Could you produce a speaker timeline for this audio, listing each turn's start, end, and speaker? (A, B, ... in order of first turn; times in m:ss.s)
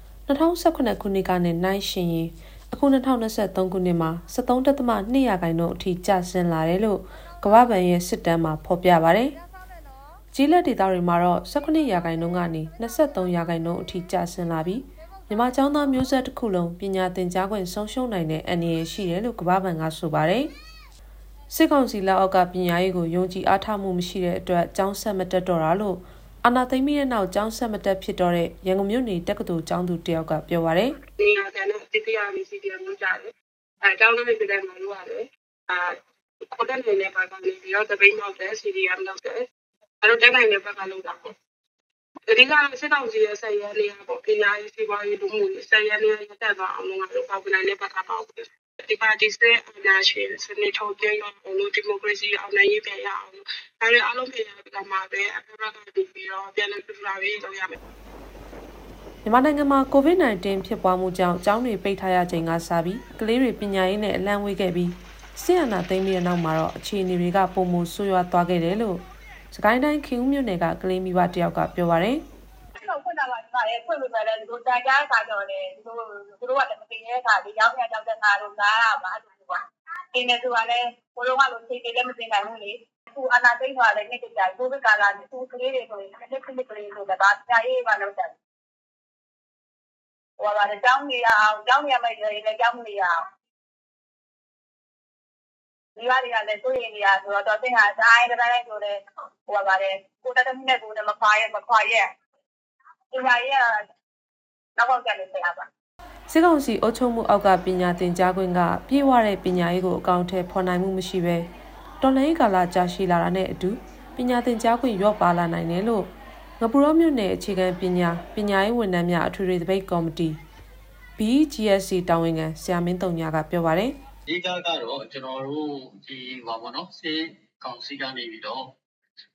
0:00.3-0:09.4 A
0:10.3-0:20.5 A
0:21.5-0:31.0 A
0:31.2-0:33.3 B
0:33.8-0:36.0 B
0:36.5-0:39.4 B
0:40.0-0:41.3 B
0:42.3-0:57.8 B
0:59.2-1:12.2 A
1:12.8-1:19.6 C
1:20.1-1:28.4 C
1:30.4-1:33.2 C
1:36.0-1:42.1 C
1:43.1-1:43.8 C
1:44.8-1:45.7 C
1:46.3-1:51.5 A
1:52.0-2:00.4 A
2:01.2-2:04.0 A
2:04.3-2:08.7 D